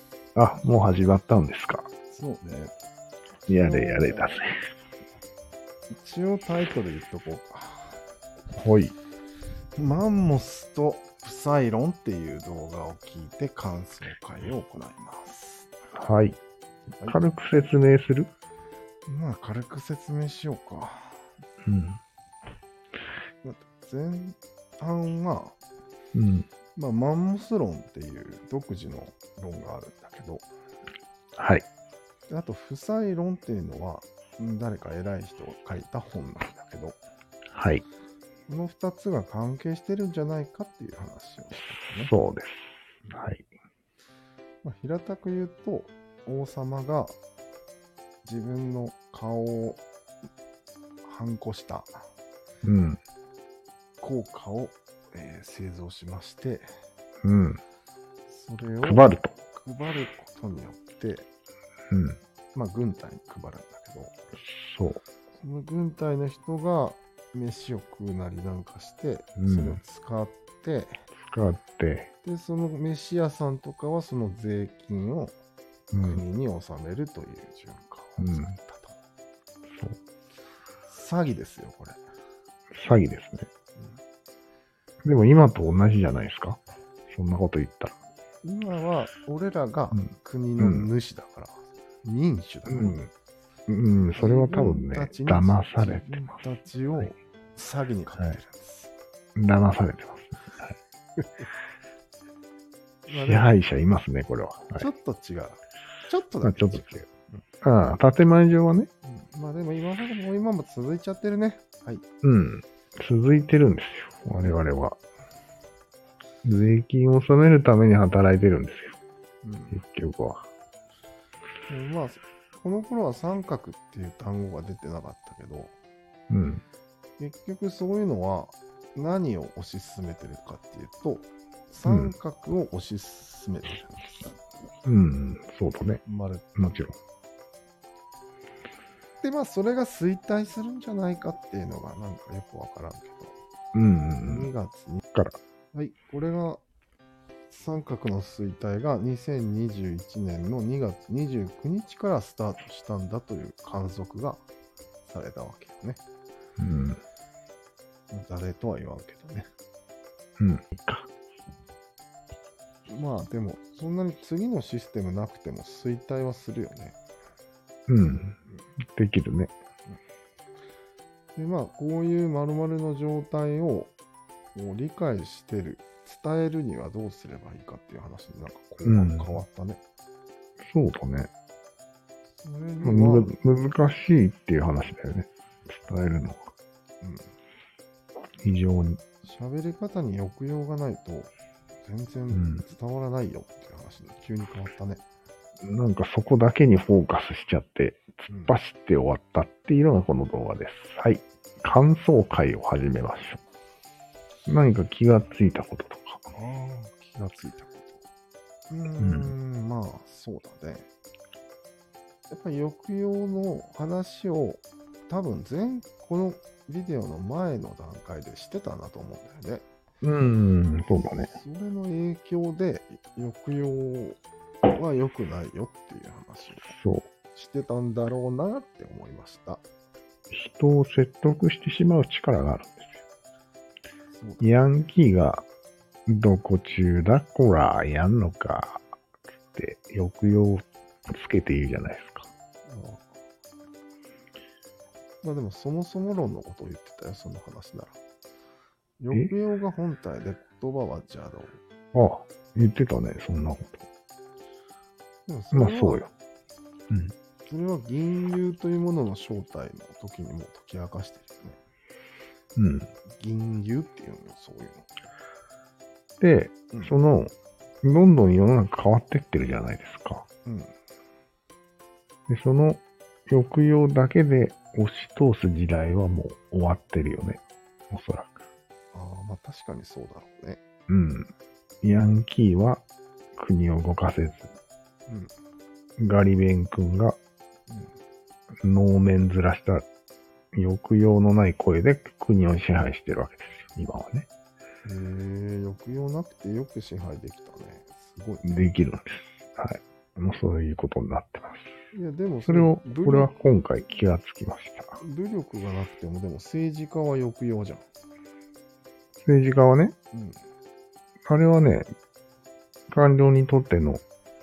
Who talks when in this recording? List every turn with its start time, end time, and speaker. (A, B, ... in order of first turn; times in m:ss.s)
0:00.3-0:01.9 A
0:02.1-0:02.7 B
0:03.4-0:04.4 B
0:03.5-0:04.5 A
0:05.9-0:08.0 B
0:08.5-0:08.9 A
0:09.8-0:15.7 B
0:15.9-0:16.4 A
0:17.0-0:18.3 A
0:19.1-0:21.2 B
0:21.6-0:22.0 A
0:23.4-0:25.6 B
0:26.1-0:26.5 A
0:26.7-0:30.5 B
0:31.4-0:31.6 A
0:32.3-0:37.0 B
0:37.5-0:37.8 A
0:38.5-0:42.1 B
0:42.0-0:43.5 A
0:44.6-0:47.2 B
0:48.2-0:49.8 B
0:51.0-0:52.0 B
0:52.6-0:53.0 A
0:54.0-0:56.7 B
0:57.2-0:57.6 A
0:58.3-1:01.3 B
0:58.8-0:59.3 A
1:01.9-1:02.2 A
1:02.5-1:04.1 B
1:04.4-1:05.0 A
1:05.4-1:11.0 B
1:09.4-1:09.8 A
1:11.2-1:12.1 A
1:12.2-1:15.3 B
1:15.9-1:16.2 A
1:16.0-1:19.0 B
1:18.2-1:18.6 A
1:19.7-1:20.0 A
1:20.8-1:22.0 B
1:22.7-1:23.5 A
1:25.0-1:28.0 A
1:28.4-1:33.0 B
1:30.6-1:30.9 A
1:32.7-1:33.1 A
1:33.7-1:36.3 A
1:34.2-1:38.9 B
1:39.4-1:40.7 A
1:43.1-1:43.5 B
1:43.1-1:44.9 A
1:44.8-1:47.4 B
1:46.4-1:47.0 A
1:47.6-1:48.9 A
1:49.0-1:52.0 B
1:52.2-1:55.0 A
1:56.4-1:59.0 A
1:59.4-1:59.8 B
1:59.7-2:00.4 A
2:01.7-2:05.7 B
2:06.3-2:06.6 A
2:07.2-2:14.4 B
2:11.8-2:12.1 A
2:14.8-2:16.0 A
2:16.0-2:16.8 B
2:16.6-2:16.9 A
2:19.2-2:23.3 B
2:23.7-2:24.5 A
2:24.2-2:25.0 B
2:25.7-2:26.6 B
2:27.5-2:34.4 B
2:35.0-2:36.0 B
2:36.6-2:37.0 A
2:38.1-2:39.5 B
2:40.4-2:41.1 A
2:42.9-2:47.0 B
2:47.9-2:48.4 A
2:48.9-2:49.5 A
2:51.3-2:53.9 B
2:54.5-2:59.8 B
2:58.8-2:59.3 A
3:00.6-3:01.3 A
3:02.4-3:03.3 B
3:02.8-3:06.5 A
3:07.0-3:07.3 B
3:08.4-3:09.0 A
3:09.2-3:11.3 B
3:11.8-3:15.0 B
3:12.3-3:12.6 A
3:15.6-3:23.4 A
3:18.3-3:18.6 B
3:24.5-3:26.2 A
3:26.3-3:28.0 B
3:28.7-3:30.9 B
3:29.0-3:29.3 A
3:32.3-3:39.6 B
3:40.0-3:41.3 A
3:40.9-3:44.2 B
3:44.7-3:46.7 B
3:46.7-3:47.1 A
3:47.3-3:49.6 B
3:50.3-3:53.0 A
3:54.1-3:54.5 B
3:54.4-3:55.4 A
3:56.1-3:58.8 A
3:59.5-4:02.3 A
4:02.6-4:03.1 B
4:05.2-4:08.0 B
4:09.0-4:11.6 B
4:11.9-4:13.8 A
4:15.3-4:16.1 B
4:15.5-4:16.1 A
4:17.5-4:21.6 B
4:22.6-4:22.9 A
4:23.2-4:24.9 B
4:26.2-4:30.2 A
4:26.7-4:27.0 B
4:30.4-4:30.7 B
4:32.3-4:38.3 A
4:38.9-4:40.6 B
4:40.9-4:41.3 A
4:41.8-4:42.8 A
4:43.4-4:44.6 A
4:45.1-4:45.3 B
4:46.0-4:47.2 A
4:48.6-4:49.8 A
4:50.5-4:54.3 A
4:54.8-4:58.7 B
4:58.4-5:01.7 A
5:01.9-5:03.3 B
5:02.4-5:05.0 A
5:05.0-5:07.8 B
5:09.2-5:09.9 A
5:10.1-5:10.4 B
5:11.3-5:11.9 A
5:12.9-5:14.0 A